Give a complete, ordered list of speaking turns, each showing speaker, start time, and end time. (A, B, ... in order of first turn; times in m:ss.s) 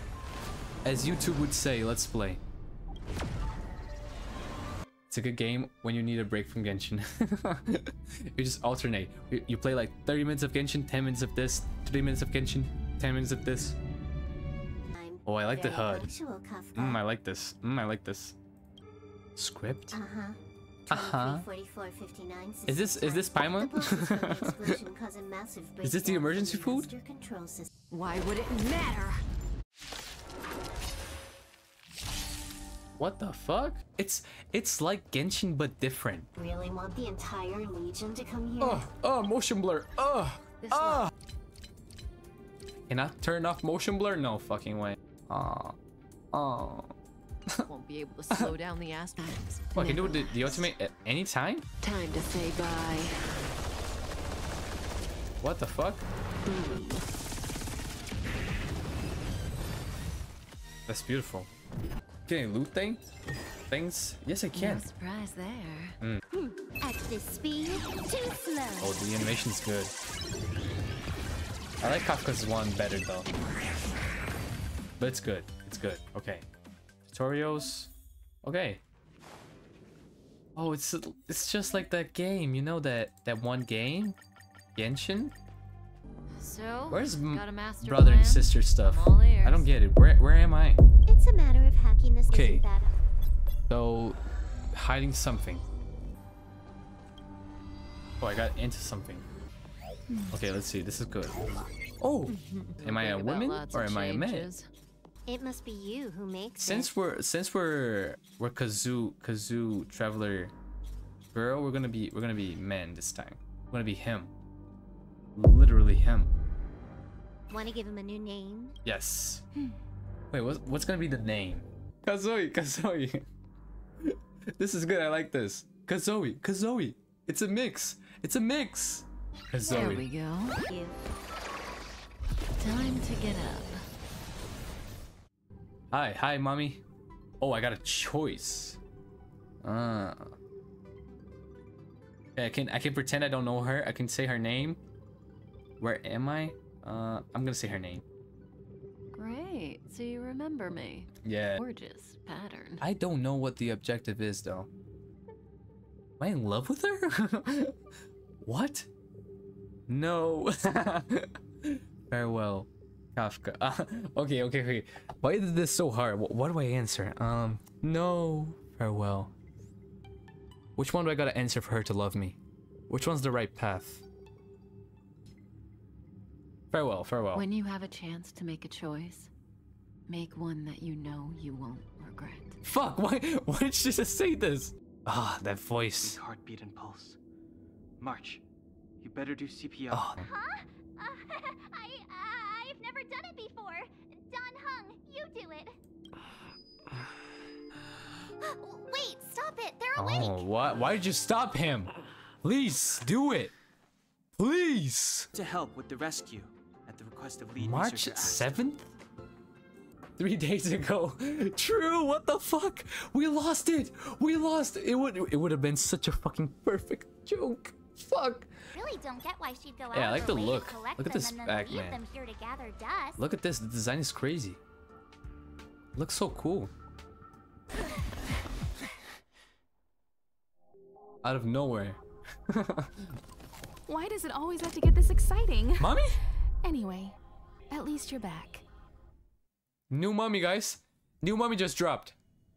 0:00.8-0:02.4 A
0:05.1-0:13.8 A
0:14.9-0:17.0 B
0:15.2-0:16.1 A
0:16.8-0:18.4 A
0:19.4-0:20.0 A
0:19.9-0:27.7 B
0:20.9-0:21.5 A
0:22.7-0:24.8 A
0:25.8-0:26.9 A
0:27.9-0:29.2 C
0:33.0-0:36.3 A
0:36.4-0:38.8 B
0:38.6-0:41.1 A
0:40.6-0:41.1 C
0:42.9-0:45.8 A
0:46.3-0:46.9 A
0:47.7-0:50.7 C
0:49.8-0:51.7 A
0:51.8-0:53.5 C
0:55.4-0:56.1 A
0:56.5-0:56.9 C
1:00.9-1:01.5 A
1:02.3-1:03.0 A
1:03.7-1:04.8 A
1:04.5-1:06.0 C
1:06.3-1:09.0 B
1:08.8-1:09.9 A
1:11.8-1:13.3 A
1:15.0-1:16.4 A
1:17.1-1:17.9 A
1:18.4-1:18.8 A
1:20.6-1:24.2 A
1:24.8-1:25.3 A
1:26.3-1:29.7 C
1:26.9-1:30.8 A
1:31.1-1:33.0 B
1:32.3-1:32.6 A
1:33.7-1:34.2 A
1:34.7-1:35.6 A
1:38.2-1:39.3 A
1:40.3-1:41.4 A
1:42.0-1:44.5 A
1:42.3-1:44.7 C
1:45.3-1:46.9 B
1:46.6-1:50.5 A
1:51.3-1:54.3 A
1:55.4-1:56.3 A
1:57.5-1:58.8 B
1:58.8-1:59.4 A
2:00.3-2:03.3 A
2:04.0-2:10.1 A
2:09.7-2:10.6 C
2:10.6-2:11.0 B
2:12.6-2:13.9 C
2:15.9-2:16.8 A
2:17.4-2:18.8 A
2:19.6-2:20.4 A
2:22.4-2:24.8 A
2:25.8-2:28.0 A
2:29.2-2:32.8 C
2:31.2-2:31.6 A
2:32.8-2:34.7 A
2:36.2-2:37.8 A
2:38.4-2:38.9 A
2:39.9-2:49.3 A
2:50.8-2:52.4 A
2:52.9-2:54.0 A
2:56.7-2:57.5 A
2:57.3-2:59.3 C
3:00.1-3:02.6 C
3:02.6-3:06.2 A
3:06.0-3:07.2 D
3:08.0-3:08.4 D
3:09.0-3:10.1 D
3:09.9-3:10.3 A
3:10.2-3:15.8 E
3:18.4-3:20.4 E
3:20.0-3:21.9 A
3:22.4-3:23.5 A
3:24.4-3:25.3 A
3:25.3-3:28.5 D
3:27.6-3:28.9 A
3:30.2-3:38.5 A
3:38.7-3:43.2 E
3:39.9-3:42.0 A
3:43.2-3:44.6 A
3:46.0-3:46.7 A
3:51.2-3:53.0 A
3:53.9-3:56.0 F
3:55.8-3:56.2 A
3:56.6-3:57.2 F
3:57.7-3:58.6 F
3:59.9-4:02.2 A